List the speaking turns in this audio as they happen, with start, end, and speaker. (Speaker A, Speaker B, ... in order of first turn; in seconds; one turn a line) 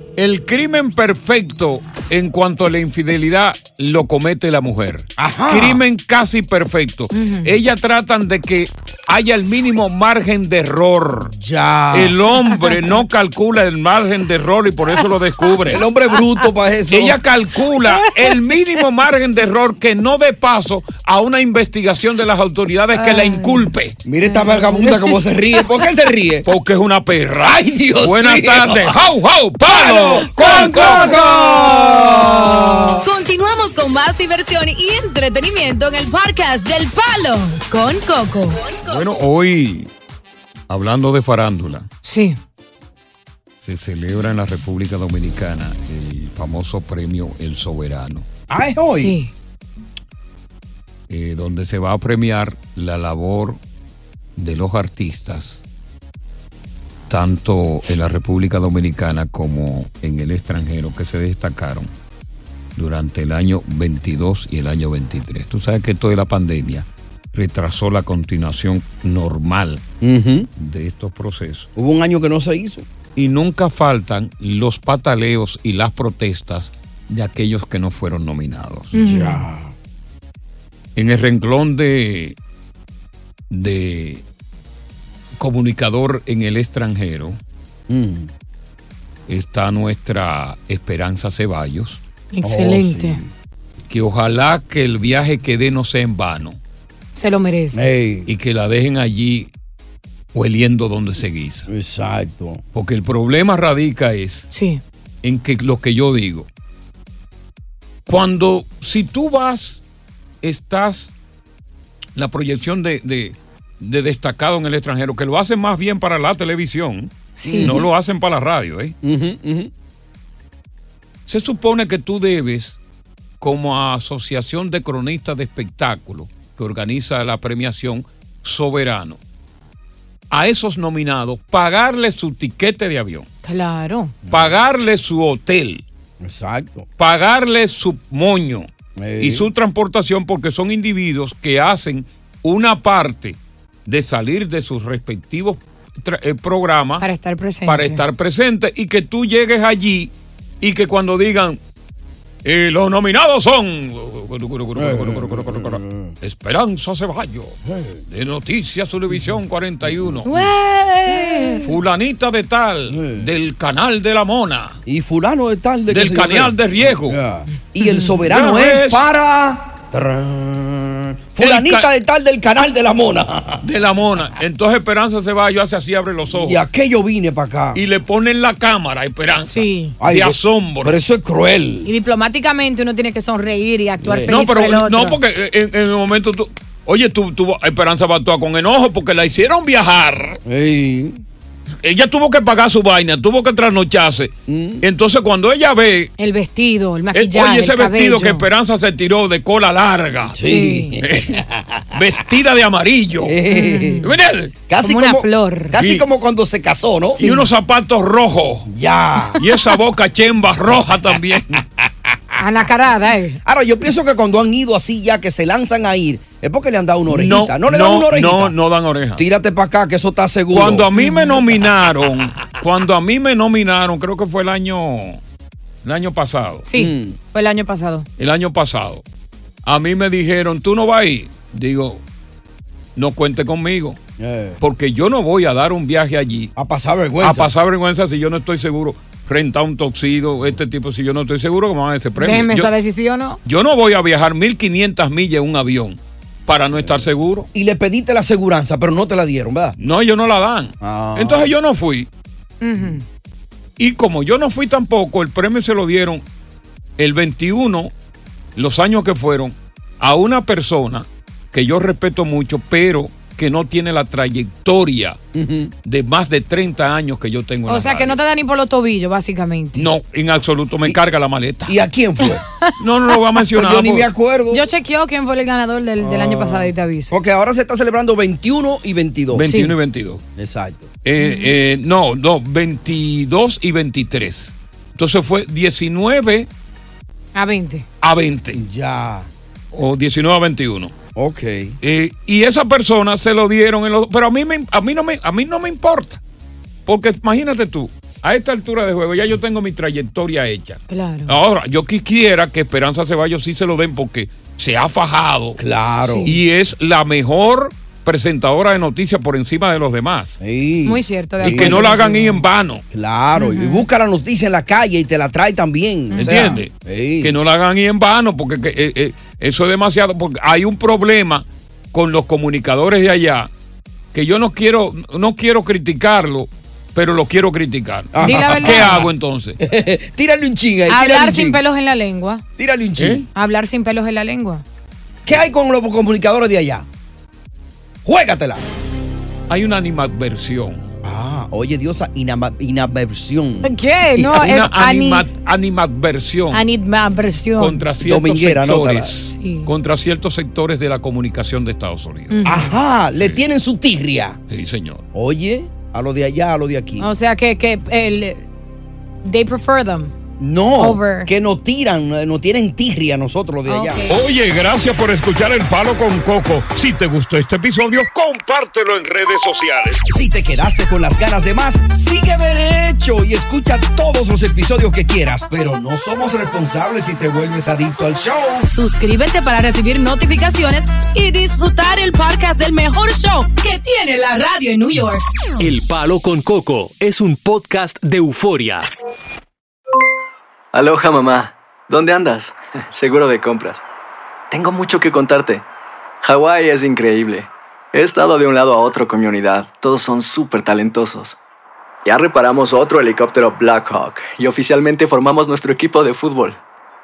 Speaker A: 0.2-11.3
Speaker B: 5.2-5.8
Speaker C: 7.1-7.5
Speaker B: 11.3-12.2
Speaker A: 11.9-15.8
Speaker B: 15.7-17.2
Speaker A: 16.9-23.9
Speaker C: 22.9-23.6
Speaker B: 24.0-26.5
Speaker C: 24.3-24.9
Speaker A: 26.4-31.8
Speaker B: 27.4-28.9
Speaker B: 29.6-33.1
Speaker C: 30.7-31.4
Speaker D: 33.0-38.9
Speaker A: 38.9-39.9
Speaker A: 40.7-41.9
Speaker C: 42.0-42.4
Speaker A: 43.6-48.2
Speaker B: 48.5-49.1
Speaker C: 48.9-49.3
Speaker A: 51.1-53.6
Speaker A: 54.4-55.6
Speaker A: 57.1-61.9
Speaker A: 62.8-69.8
Speaker B: 70.0-70.5
Speaker A: 70.6-71.7
Speaker B: 71.8-72.8
Speaker A: 73.2-79.0
Speaker C: 78.9-79.4
Speaker B: 78.9-79.7
Speaker A: 81.0-82.3
Speaker A: 83.5-84.2
Speaker A: 85.4-87.4
Speaker B: 87.9-88.3
Speaker A: 89.3-92.0
Speaker C: 92.3-93.2
Speaker B: 92.4-93.3
Speaker A: 93.9-96.6
Speaker C: 97.2-97.8
Speaker B: 97.7-98.3
Speaker A: 98.2-99.5
Speaker A: 100.3-101.7
Speaker B: 101.7-102.6
Speaker A: 102.7-104.5
Speaker C: 104.5-104.8
Speaker A: 105.2-106.5
Speaker A: 108.1-109.8
Speaker A: 110.4-111.1
Speaker A: 112.2-118.9
Speaker C: 117.4-117.7
Speaker B: 117.4-117.9
Speaker B: 119.0-119.7
Speaker A: 121.3-122.8
Speaker A: 123.4-129.2
Speaker A: 130.3-133.2
Speaker C: 133.4-134.1
Speaker B: 134.2-134.6
Speaker A: 134.3-135.8
Speaker B: 136.2-136.9
Speaker A: 137.0-138.7
Speaker B: 139.0-139.5
Speaker A: 139.2-147.0
Speaker C: 147.0-148.0
Speaker A: 147.7-151.6
Speaker A: 152.4-157.6
Speaker B: 154.7-156.1
Speaker B: 157.7-158.0
Speaker A: 158.1-160.5
Speaker C: 160.2-161.7
Speaker A: 161.6-164.8
Speaker B: 162.9-163.3
Speaker B: 164.8-173.6
Speaker A: 165.9-167.2
Speaker C: 167.8-168.2
Speaker A: 168.3-169.0
Speaker A: 171.4-171.9
Speaker A: 173.6-176.6
Speaker B: 176.3-177.8
Speaker A: 177.7-181.0
Speaker C: 179.4-179.9
Speaker B: 180.0-181.9
Speaker C: 181.8-185.2
Speaker B: 184.0-184.3
Speaker A: 184.3-190.4
Speaker B: 190.4-191.2
Speaker A: 191.8-196.1
Speaker B: 194.5-194.8
Speaker C: 196.2-198.4
Speaker A: 197.1-200.4
Speaker B: 200.3-201.4
Speaker C: 200.4-201.0
Speaker A: 201.0-203.4
Speaker B: 203.2-204.1
Speaker C: 203.5-204.1
Speaker A: 204.0-204.5
Speaker B: 204.7-207.3
Speaker C: 204.8-205.8
Speaker A: 205.8-206.0
Speaker C: 207.2-207.5
Speaker A: 207.2-208.7
Speaker B: 208.7-209.4
Speaker A: 209.4-211.6
Speaker C: 212.4-213.4
Speaker B: 213.4-218.5
Speaker A: 217.1-219.2
Speaker B: 219.2-220.9
Speaker A: 220.5-225.2
Speaker C: 220.9-221.4
Speaker A: 225.8-226.6
Speaker C: 226.6-228.1
Speaker B: 226.7-227.2
Speaker A: 228.2-229.0
Speaker A: 229.6-232.0
Speaker A: 232.9-234.0
Speaker B: 234.2-234.6
Speaker A: 234.6-236.5
Speaker B: 236.6-237.5
Speaker A: 237.2-242.7
Speaker C: 242.2-243.4
Speaker A: 243.4-247.5
Speaker B: 246.8-249.8
Speaker A: 249.8-252.1
Speaker B: 250.8-251.5
Speaker C: 252.6-253.0
Speaker A: 253.8-256.2
Speaker A: 257.0-257.9
Speaker A: 258.6-265.2
Speaker B: 265.3-265.7
Speaker A: 265.8-268.2
Speaker C: 267.7-269.9
Speaker A: 269.8-271.8
Speaker B: 271.7-272.4
Speaker A: 272.8-274.1
Speaker B: 273.5-274.6
Speaker C: 274.5-277.1
Speaker B: 276.0-279.5
Speaker A: 279.3-280.2
Speaker C: 279.4-279.7
Speaker B: 280.4-280.9
Speaker A: 281.0-286.5
Speaker C: 281.2-281.5
Speaker C: 287.3-287.8
Speaker A: 288.0-288.6
Speaker B: 288.5-289.3
Speaker A: 289.7-290.9
Speaker B: 291.1-291.8
Speaker A: 291.8-296.2
Speaker A: 296.9-305.6
Speaker C: 300.9-301.3
Speaker B: 305.6-306.4
Speaker C: 306.0-306.3
Speaker A: 306.2-310.3
Speaker B: 310.4-311.9
Speaker C: 310.9-312.4
Speaker A: 311.4-312.8
Speaker B: 312.9-317.4
Speaker C: 313.4-313.9
Speaker C: 316.1-316.6
Speaker A: 316.2-323.5
Speaker A: 324.1-329.6
Speaker B: 328.1-329.1
Speaker C: 328.2-329.0
Speaker B: 329.6-331.6
Speaker C: 330.9-332.4
Speaker B: 332.6-333.2
Speaker A: 333.0-333.2
Speaker C: 333.3-334.6
Speaker B: 335.2-336.9
Speaker B: 338.0-338.6
Speaker A: 339.5-340.9
Speaker B: 341.0-344.5
Speaker C: 343.6-345.3
Speaker A: 344.3-346.6
Speaker C: 346.5-347.8
Speaker A: 347.6-352.5
Speaker B: 348.0-349.1
Speaker C: 349.3-349.7
Speaker C: 352.3-352.8
Speaker B: 352.4-354.4
Speaker A: 353.1-353.4
Speaker A: 354.5-355.0
Speaker B: 355.1-357.1
Speaker C: 357.0-358.5
Speaker C: 359.2-360.1
Speaker B: 360.4-364.0
Speaker C: 360.8-361.3
Speaker C: 363.7-364.1
Speaker A: 364.1-370.0
Speaker B: 370.1-378.6
Speaker C: 378.7-381.1
Speaker D: 380.0-385.2
Speaker E: 385.6-388.9
Speaker F: 390.7-393.8
Speaker F: 394.5-395.6
Speaker F: 396.2-401.4
Speaker F: 402.1-406.6